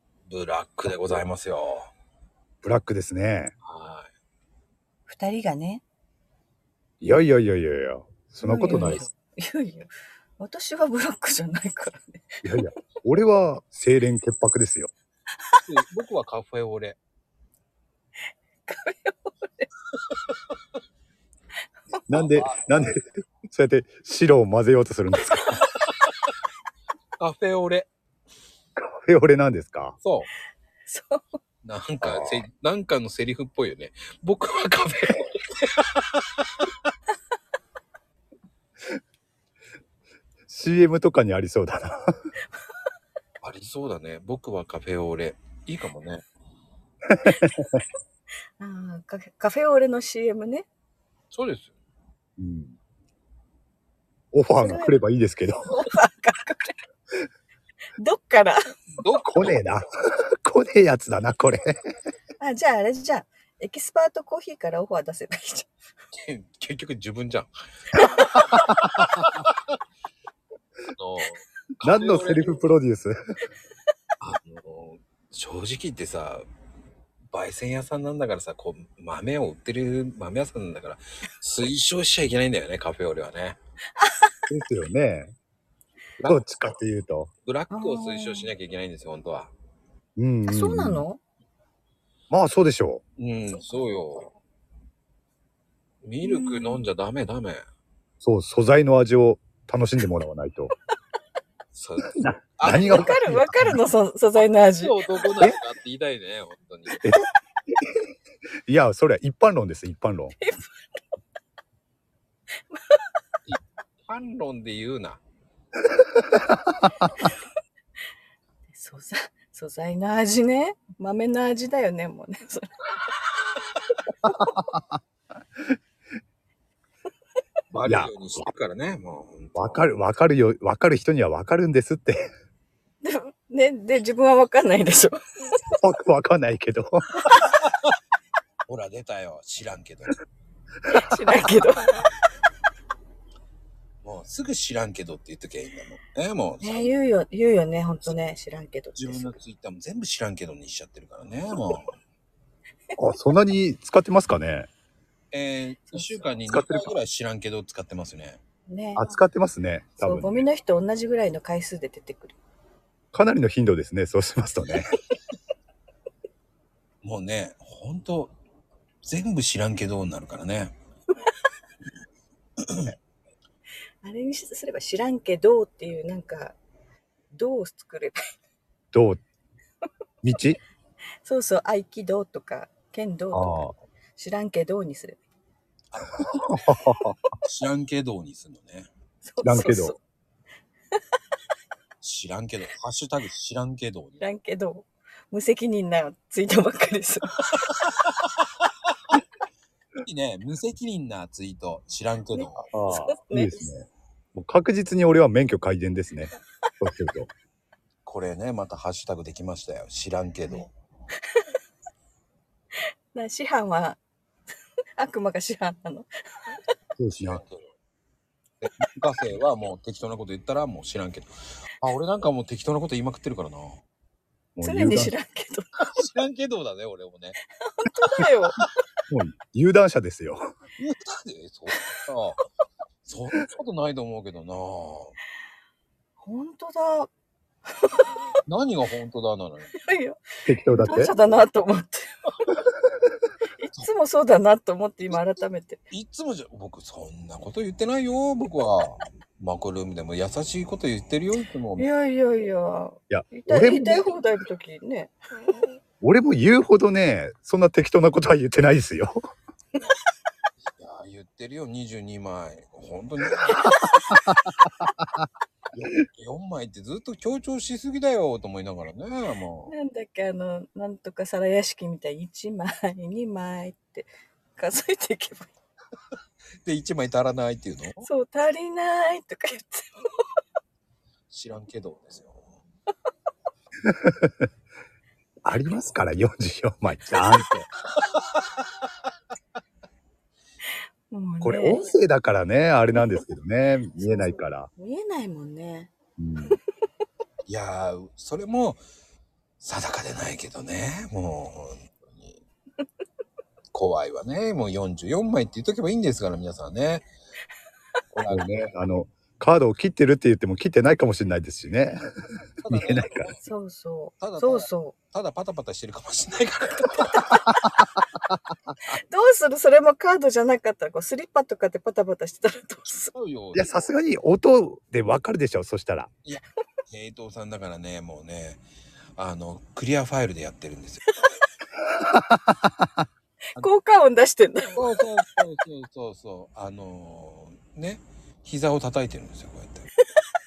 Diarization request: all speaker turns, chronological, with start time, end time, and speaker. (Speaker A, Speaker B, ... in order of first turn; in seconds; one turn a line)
Speaker A: 0.2-1.9
Speaker B: 2.6-3.5
Speaker A: 3.6-4.1
Speaker C: 5.1-5.8
Speaker B: 7.0-9.1
Speaker C: 8.4-12.7
Speaker B: 12.4-14.9
Speaker A: 15.6-17.0
Speaker C: 18.7-19.7
Speaker A: 20.1-20.4
Speaker B: 22.1-25.6
Speaker A: 22.1-22.9
Speaker A: 25.7-26.3
Speaker A: 27.2-27.9
Speaker B: 28.8-30.0
Speaker A: 30.0-30.3
Speaker C: 30.9-31.4
Speaker A: 31.6-36.7
Speaker B: 32.0-32.4
Speaker B: 40.5-42.1
Speaker A: 43.4-46.2
Speaker B: 47.1-47.8
Speaker C: 48.6-50.7
Speaker A: 51.3-51.7
Speaker B: 52.4-52.8
Speaker B: 54.3-55.8
Speaker C: 54.6-55.0
Speaker C: 55.7-56.8
Speaker C: 58.0-58.6
Speaker A: 59.0-59.6
Speaker B: 59.3-59.9
Speaker B: 60.4-61.8
Speaker C: 62.4-65.7
Speaker A: 66.1-69.8
Speaker A: 70.9-72.6
Speaker B: 71.8-73.2
Speaker A: 74.2-76.5
Speaker A: 77.3-83.6
Speaker C: 84.0-84.3
Speaker B: 84.5-85.3
Speaker A: 86.2-86.5
Speaker B: 86.2-87.3
Speaker A: 87.5-89.5
Speaker C: 87.7-88.5
Speaker B: 90.2-91.0
Speaker C: 90.5-91.2
Speaker B: 92.3-93.0
Speaker A: 93.2-94.3
Speaker A: 96.0-97.6
Speaker C: 96.2-96.9
Speaker B: 98.2-100.7
Speaker A: 101.7-103.1
Speaker B: 102.2-103.8
Speaker C: 102.7-105.0
Speaker A: 104.8-107.0
Speaker B: 107.0-107.9
Speaker B: 108.7-110.3
Speaker C: 110.4-110.6
Speaker C: 112.7-113.1
Speaker A: 113.5-115.2
Speaker B: 116.3-116.7
Speaker C: 118.7-123.1
Speaker C: 124.1-124.5
Speaker B: 124.2-125.0
Speaker A: 127.7-129.8
Speaker B: 127.8-128.1
Speaker B: 129.6-132.2
Speaker C: 133.0-135.6
Speaker B: 135.8-137.1
Speaker A: 137.4-137.9
Speaker A: 138.7-140.2
Speaker C: 140.9-142.1
Speaker A: 144.0-146.9
Speaker C: 146.6-149.4
Speaker A: 148.9-151.9
Speaker B: 153.0-154.7
Speaker A: 155.3-158.4
Speaker C: 155.9-156.2
Speaker B: 156.5-157.0
Speaker C: 158.7-159.2
Speaker B: 158.9-160.5
Speaker C: 160.0-162.4
Speaker B: 163.1-165.0
Speaker A: 167.0-168.4
Speaker A: 169.0-170.8
Speaker A: 172.6-172.9
Speaker C: 174.0-176.6
Speaker C: 177.3-178.2
Speaker B: 178.9-179.2
Speaker B: 180.2-180.6
Speaker C: 181.2-185.2
Speaker B: 183.3-183.8
Speaker A: 185.9-186.8
Speaker B: 186.5-187.2
Speaker A: 187.4-188.9
Speaker C: 189.2-190.0
Speaker B: 189.4-189.9
Speaker A: 192.0-194.2
Speaker C: 194.2-197.7
Speaker A: 197.7-199.1
Speaker A: 200.0-202.7
Speaker C: 202.3-203.7
Speaker B: 202.7-207.3
Speaker A: 208.1-210.7
Speaker C: 211.2-211.5
Speaker C: 212.8-214.0
Speaker C: 215.0-216.6
Speaker B: 217.0-217.4
Speaker A: 217.1-217.8
Speaker A: 218.6-223.8
Speaker B: 224.6-225.1
Speaker C: 224.6-225.7
Speaker A: 225.9-227.4
Speaker C: 227.6-228.6
Speaker B: 229.1-230.4
Speaker A: 230.8-232.4
Speaker A: 233.0-235.2
Speaker C: 236.2-237.1
Speaker C: 237.7-238.2
Speaker A: 238.5-239.8
Speaker C: 239.7-242.1
Speaker B: 240.5-241.1
Speaker C: 243.6-245.8
Speaker A: 245.9-251.9
Speaker C: 251.8-255.8
Speaker B: 253.1-254.1
Speaker B: 256.0-259.2
Speaker A: 260.8-263.8
Speaker A: 265.7-269.8
Speaker C: 269.7-275.5
Speaker A: 276.6-278.1
Speaker C: 278.0-280.3
Speaker A: 281.3-282.4
Speaker B: 283.9-284.5
Speaker B: 285.4-287.7
Speaker C: 287.1-287.4
Speaker A: 288.1-288.8
Speaker C: 291.1-291.9
Speaker B: 291.4-294.7
Speaker C: 294.0-296.6
Speaker B: 296.2-296.6
Speaker A: 297.5-298.8
Speaker A: 299.6-302.4
Speaker A: 303.7-307.1
Speaker A: 308.1-308.6
Speaker B: 308.3-312.0
Speaker A: 312.6-313.4
Speaker B: 312.7-313.3
Speaker C: 313.4-315.0
Speaker A: 314.2-317.3
Speaker C: 318.9-323.1
Speaker A: 322.9-323.9
Speaker B: 323.5-326.1
Speaker A: 326.2-328.6
Speaker A: 329.2-331.1
Speaker C: 331.1-331.4
Speaker B: 331.9-333.0
Speaker C: 333.6-334.9
Speaker A: 334.7-339.9